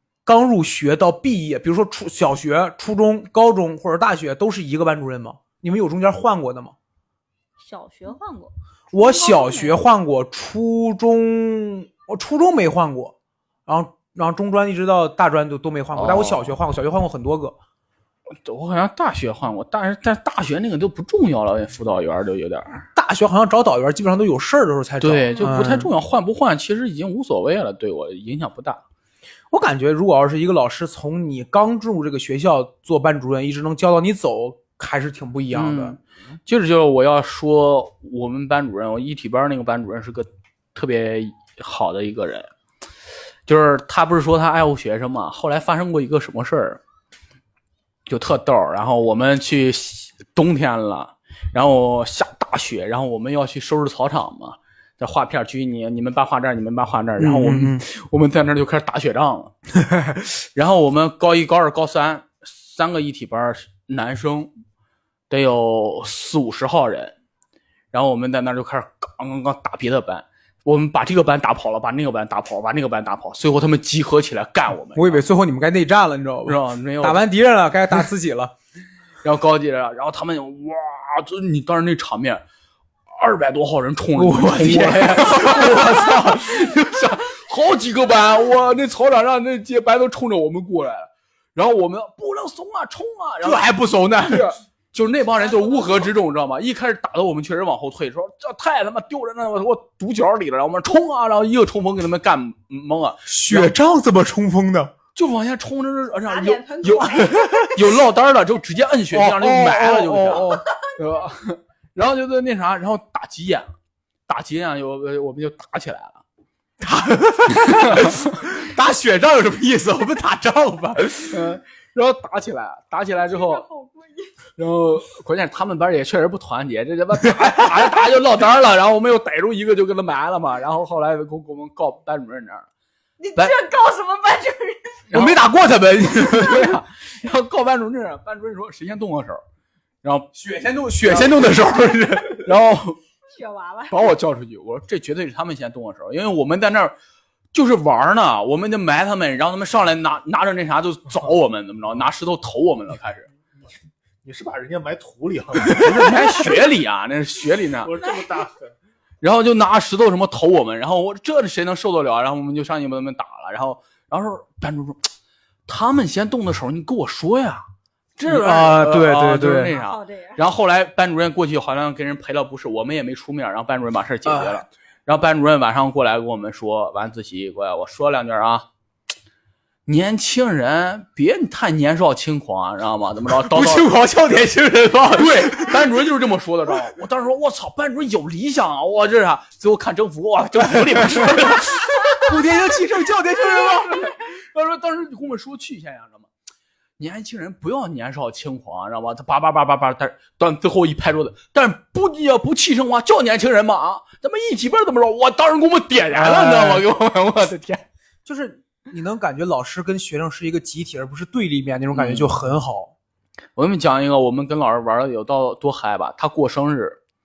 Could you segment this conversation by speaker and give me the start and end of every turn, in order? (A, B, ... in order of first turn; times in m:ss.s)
0:00.2-0:06.7 A
0:07.6-0:09.8 B
0:08.9-0:13.1 A
0:13.7-0:17.6 A
0:15.9-0:16.6 C
0:18.4-0:22.8 C
0:23.0-0:25.9 A
0:25.0-0:28.8 C
0:29.5-0:36.0 A
0:35.5-0:42.5 C
0:43.5-0:46.8 C
0:48.1-0:59.5 C
0:57.2-0:57.8 A
1:00.6-1:04.5 C
1:05.3-1:07.1 C
1:07.9-1:15.2 C
1:15.0-1:18.5 A
1:16.4-1:17.2 C
1:19.2-1:22.4 C
1:23.2-1:33.7 C
1:24.2-1:26.3 A
1:33.4-1:34.5 A
1:34.2-1:43.7 C
1:35.4-1:36.1 B
1:43.3-1:44.9 A
1:45.1-1:53.7 C
1:46.2-1:47.7 B
1:47.2-1:47.8 A
1:49.1-1:50.6 A
1:54.3-1:56.2 C
1:56.8-2:01.4 A
1:57.6-1:58.1 C
2:01.1-2:03.6 C
2:03.2-2:04.3 B
2:04.6-2:12.7 C
2:07.2-2:08.0 A
2:13.2-2:15.0 B
2:15.1-2:15.4 C
2:15.1-2:16.8 A
2:16.0-2:19.4 C
2:20.0-2:20.3 C
2:20.3-2:22.5 A
2:21.0-2:21.7 C
2:22.2-2:23.0 C
2:23.3-2:24.1 B
2:23.9-2:26.9 C
2:27.5-2:33.3 C
2:34.2-2:36.2 D
2:35.7-2:37.9 C
2:35.8-2:36.5 A
2:37.8-2:38.7 D
2:38.0-2:38.3 B
2:39.2-2:45.1 C
2:45.7-2:47.6 C
2:48.2-2:58.6 C
2:48.3-2:49.7 A
2:49.7-2:50.4 B
2:54.3-2:54.6 A
2:59.9-3:04.5 C
3:03.4-3:05.8 A
3:05.1-3:12.4 C
3:11.5-3:14.1 A
3:13.6-3:16.3 C
3:17.0-3:27.8 C
3:26.1-3:26.8 A
3:28.3-3:32.9 A
3:31.9-3:32.3 C
3:33.6-3:37.0 C